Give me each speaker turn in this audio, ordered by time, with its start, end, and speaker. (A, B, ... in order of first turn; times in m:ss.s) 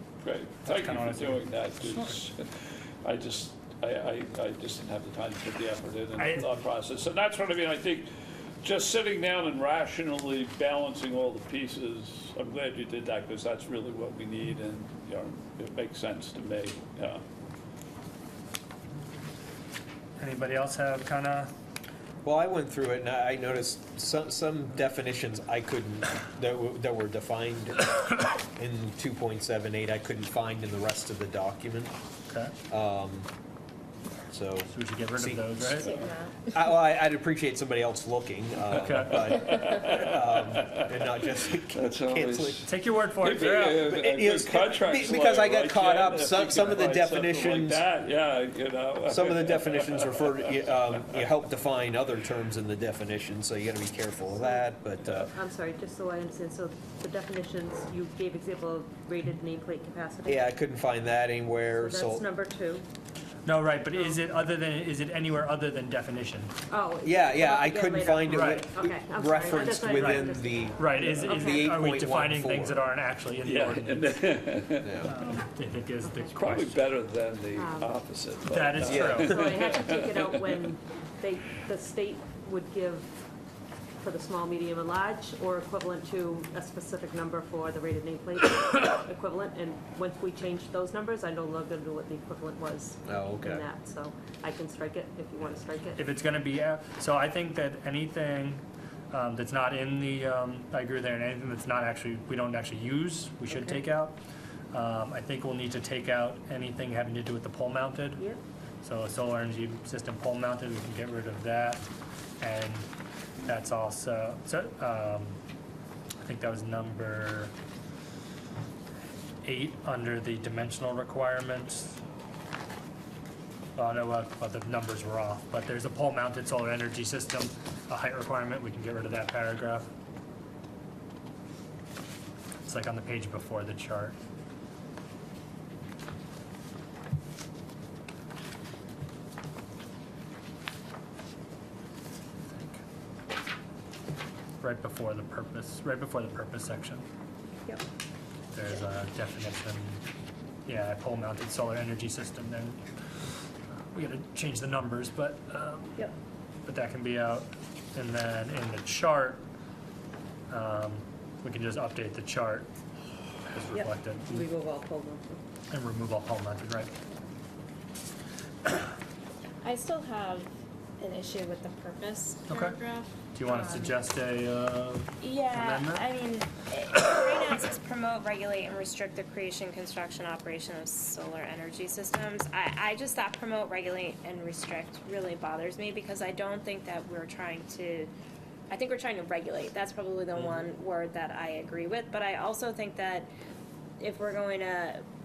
0:00.2-0:02.5 A
0:00.6-0:02.2 B
0:03.0-0:08.1 A
0:06.2-0:06.5 B
0:08.6-0:17.2 A
0:20.2-0:21.5 B
0:22.2-0:31.9 C
0:32.3-0:32.6 B
0:32.7-0:33.3 C
0:34.3-0:42.6 C
0:34.7-0:35.9 B
0:35.9-0:36.5 D
0:38.8-0:39.2 B
0:39.4-0:40.8 A
0:41.7-0:50.7 A
0:42.6-0:43.9 B
0:43.8-0:47.8 C
0:49.1-0:55.3 C
0:54.4-0:54.6 E
0:55.3-1:00.5 E
1:00.3-1:02.3 C
1:01.8-1:02.9 E
1:03.5-1:06.5 B
1:06.7-1:11.7 E
1:07.0-1:12.8 C
1:08.3-1:08.7 B
1:09.6-1:14.2 B
1:13.4-1:15.0 A
1:14.8-1:15.1 C
1:15.1-1:16.9 B
1:16.0-1:16.3 E
1:16.4-1:20.6 A
1:17.6-1:18.0 E
1:18.5-1:19.4 B
1:18.8-1:19.4 C
1:19.2-1:23.1 E
1:24.0-1:36.1 E
1:33.1-1:33.7 C
1:36.0-1:44.2 B
1:43.5-1:43.8 E
1:44.7-1:48.2 B
1:48.8-1:51.8 B
1:52.4-1:52.9 B
1:53.4-1:55.4 B
1:56.2-1:57.5 B
1:59.4-2:02.0 B
2:03.8-2:09.9 B
2:12.6-2:14.2 B
2:22.5-2:22.8 B
2:24.6-2:27.0 B
2:28.5-2:30.0 B
2:30.7-2:32.8 B
2:33.9-2:36.0 B
2:36.7-2:39.4 B
2:40.5-2:42.7 B
2:43.5-2:44.5 B
2:43.7-2:45.4 E
2:45.7-2:46.9 B
2:49.6-2:53.9 D
2:52.5-2:52.8 B
2:53.4-2:56.1 B
2:55.2-3:08.1 D
3:08.7-3:13.3 D
3:14.0-3:15.0 D